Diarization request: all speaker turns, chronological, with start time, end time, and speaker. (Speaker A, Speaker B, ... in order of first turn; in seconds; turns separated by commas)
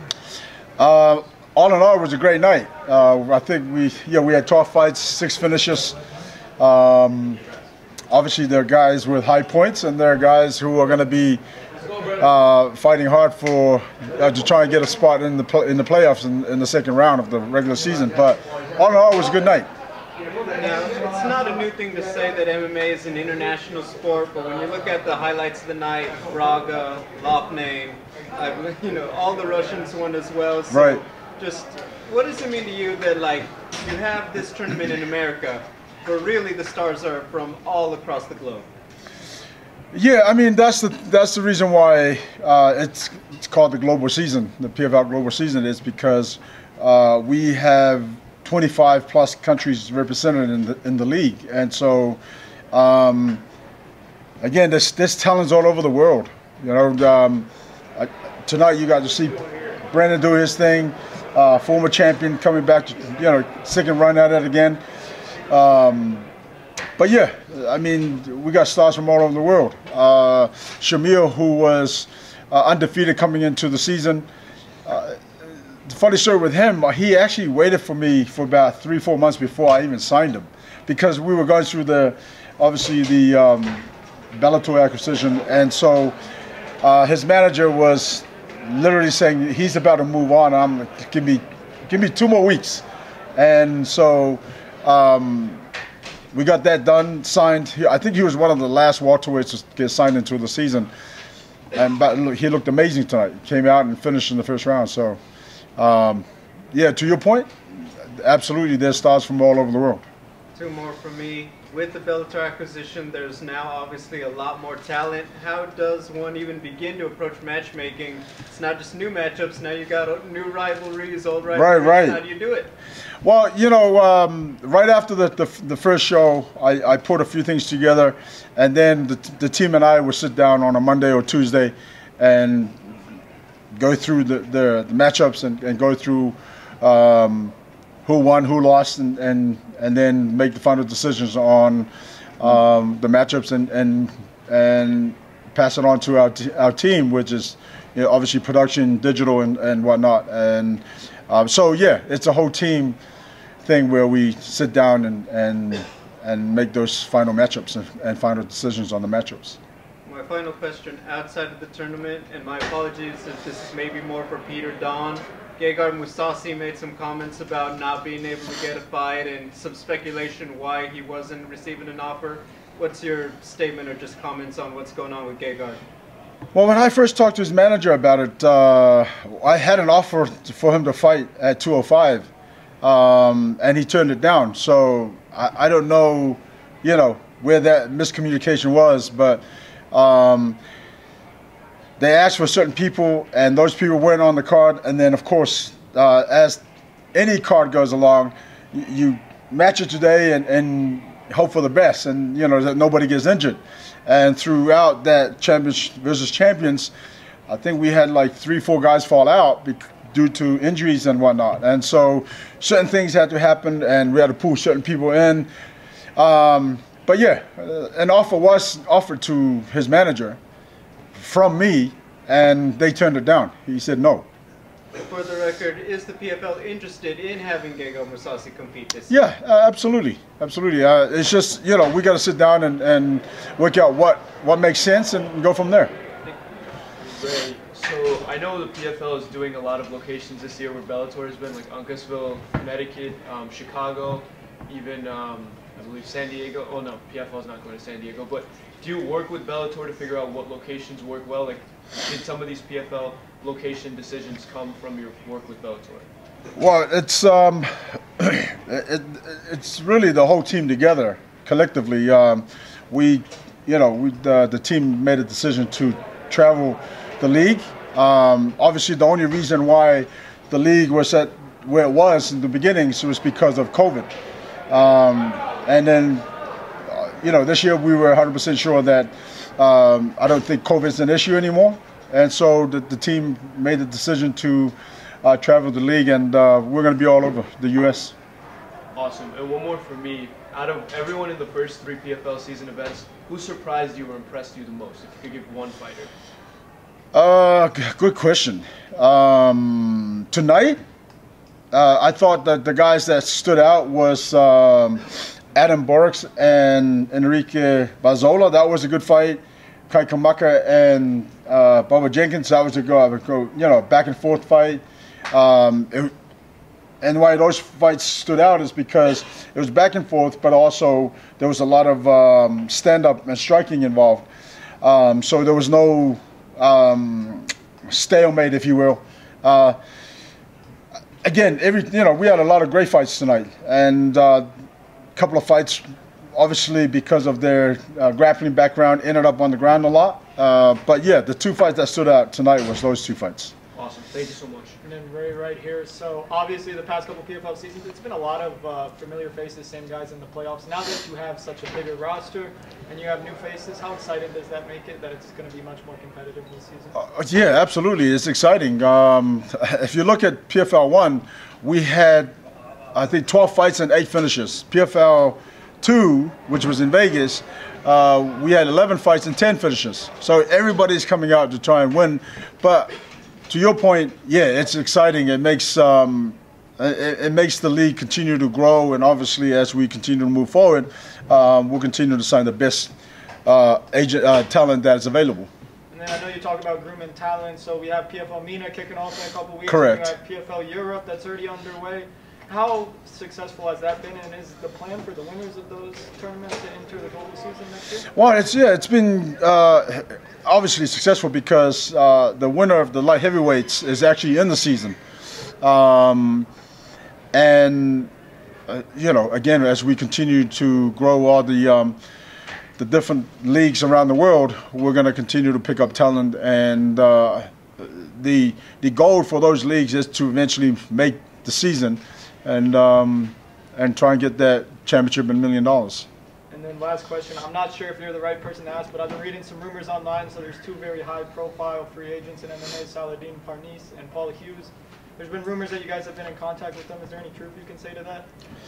Speaker A: 0.8-6.0, Speaker A: 6.6-7.4, Speaker A: 8.1-11.4, Speaker A: 12.2-19.7, Speaker B: 20.5-38.7, Speaker A: 30.7-31.0, Speaker A: 39.9-52.2, Speaker A: 52.7-53.4, Speaker A: 54.4-64.8, Speaker A: 65.5-66.3, Speaker A: 67.0-74.3, Speaker A: 74.8-86.2, Speaker A: 86.8-92.8, Speaker A: 93.3-95.6, Speaker A: 96.3-100.9, Speaker A: 101.7-105.2, Speaker A: 105.8-107.5, Speaker A: 108.1-110.0, Speaker B: 110.5-122.7, Speaker A: 121.5-122.2, Speaker A: 123.2-132.7, Speaker A: 133.7-153.0, Speaker A: 153.6-159.6, Speaker B: 160.0-175.8, Speaker A: 176.5-182.3, Speaker A: 182.8-190.6, Speaker A: 192.0-196.6, Speaker A: 197.1-206.9, Speaker A: 207.5-215.5, Speaker A: 216.2-220.4, Speaker A: 221.1-224.3, Speaker B: 224.9-229.2, Speaker A: 229.1-235.9, Speaker C: 237.0-256.1, Speaker A: 256.6-274.1, Speaker A: 274.7-276.2, Speaker A: 276.9-288.1, Speaker C: 288.9-296.1, Speaker A: 297.1-300.8, Speaker A: 301.7-316.1, Speaker A: 317.0-324.3, Speaker A: 324.8-329.8, Speaker A: 331.2-334.5, Speaker A: 335.1-343.5, Speaker C: 343.7-344.8, Speaker D: 344.8-356.9, Speaker A: 356.9-362.3, Speaker A: 362.9-372.9, Speaker A: 373.5-382.9, Speaker A: 383.4-385.5, Speaker D: 385.9-398.1, Speaker A: 389.7-390.1, Speaker A: 398.1-405.0, Speaker A: 405.6-406.5, Speaker A: 407.3-408.1, Speaker A: 408.7-412.0, Speaker A: 412.8-426.1, Speaker D: 426.5-438.3